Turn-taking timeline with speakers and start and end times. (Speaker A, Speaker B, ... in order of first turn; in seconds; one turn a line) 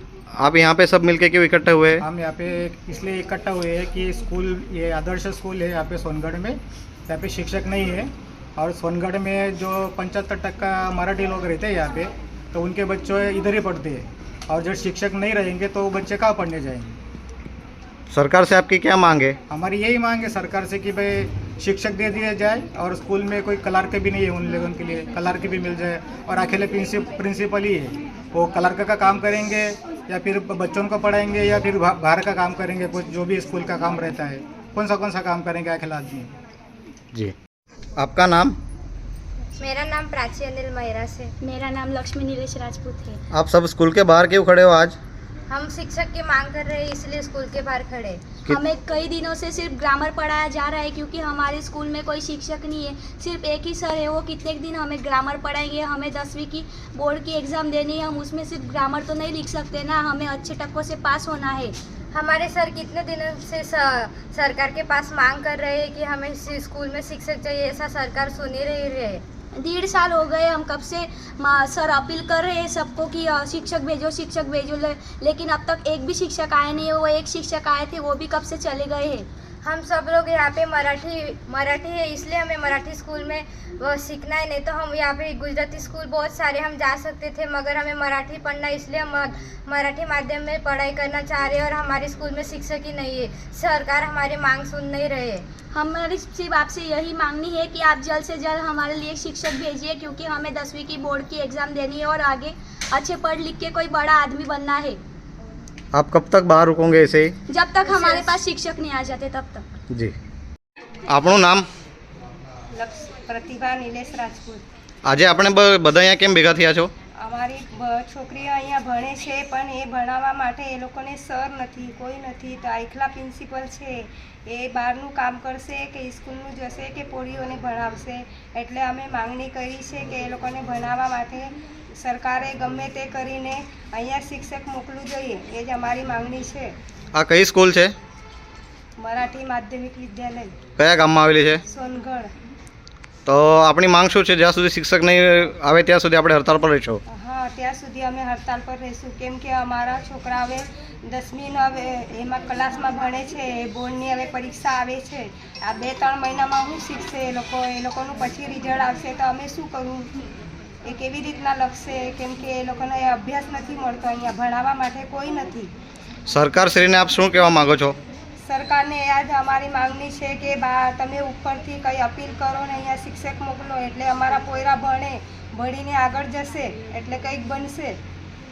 Speaker A: 0.3-2.0
Speaker B: 2.0-16.9
Speaker A: 18.1-19.4
Speaker B: 19.5-36.3
Speaker A: 38.0-38.5
Speaker C: 39.6-41.3
Speaker D: 41.4-43.2
Speaker A: 43.3-45.0
Speaker C: 45.5-48.3
Speaker D: 48.5-61.7
Speaker C: 62.1-69.2
Speaker D: 69.5-79.3
Speaker C: 79.6-95.4
Speaker D: 95.7-105.0
Speaker A: 105.9-107.3
Speaker D: 107.5-109.7
Speaker E: 107.9-108.3
Speaker A: 111.1-111.7
Speaker E: 112.7-114.6
Speaker A: 115.0-116.9
Speaker E: 117.2-136.7
Speaker A: 137.1-137.9
Speaker E: 139.0-140.5
Speaker A: 140.8-141.6
Speaker E: 141.7-142.3
Speaker A: 143.2-147.0
Speaker E: 147.1-160.1
Speaker E: 160.9-165.7
Speaker A: 166.3-167.9
Speaker E: 168.4-177.9